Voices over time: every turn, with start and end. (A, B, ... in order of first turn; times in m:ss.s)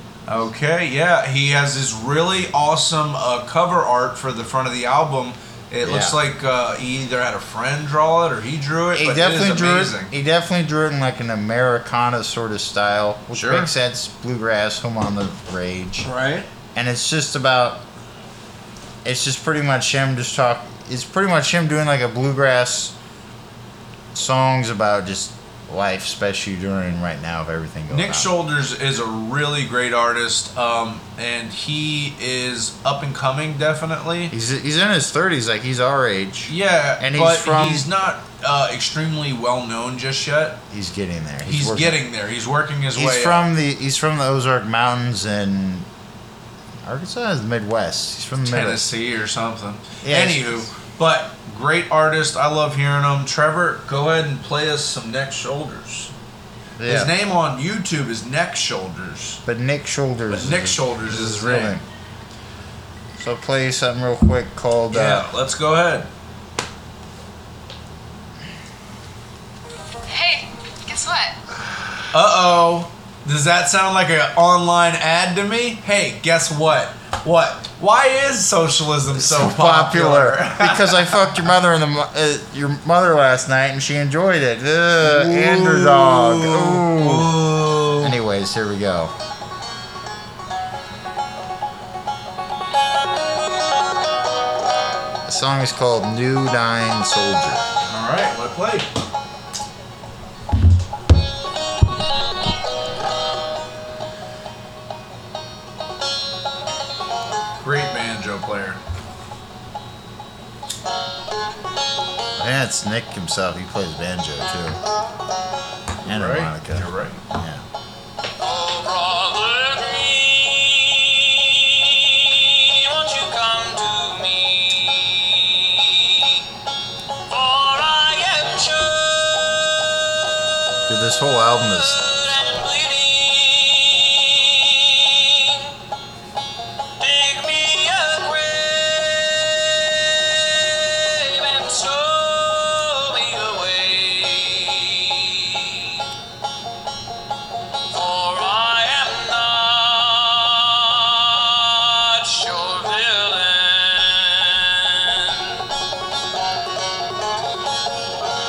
0:00.3-0:10.1 A
0:05.8-0:06.2 B
0:08.9-0:16.1 B
0:13.3-0:13.7 A
0:16.0-0:16.5 A
0:16.7-0:17.8 B
0:19.0-0:22.9 B
0:24.1-0:28.3 B
0:27.9-0:34.3 A
0:34.3-0:37.9 B
0:36.5-0:40.6 A
0:40.7-0:42.0 B
0:41.4-0:43.5 A
0:42.9-0:45.9 B
0:46.8-0:48.9 B
0:48.4-0:56.1 A
0:50.0-0:50.6 B
0:56.8-0:57.1 B
0:56.8-0:59.4 A
0:59.4-1:01.8 B
1:00.3-1:01.8 A
1:03.2-1:05.3 B
1:04.9-1:06.1 A
1:10.1-1:11.4 C
1:12.1-1:21.4 A
1:19.1-1:27.3 B
1:25.0-1:28.2 A
1:28.0-1:29.1 B
1:35.2-1:37.7 B
1:37.9-1:38.9 A
1:47.6-1:48.8 A
1:52.4-1:54.8 B
1:56.0-1:57.6 B
1:56.0-1:57.2 A
1:58.4-2:06.4 C
2:07.3-2:09.8 C
2:10.9-2:12.0 B
2:11.7-2:15.8 C
2:17.0-2:26.1 C
2:27.9-2:35.7 C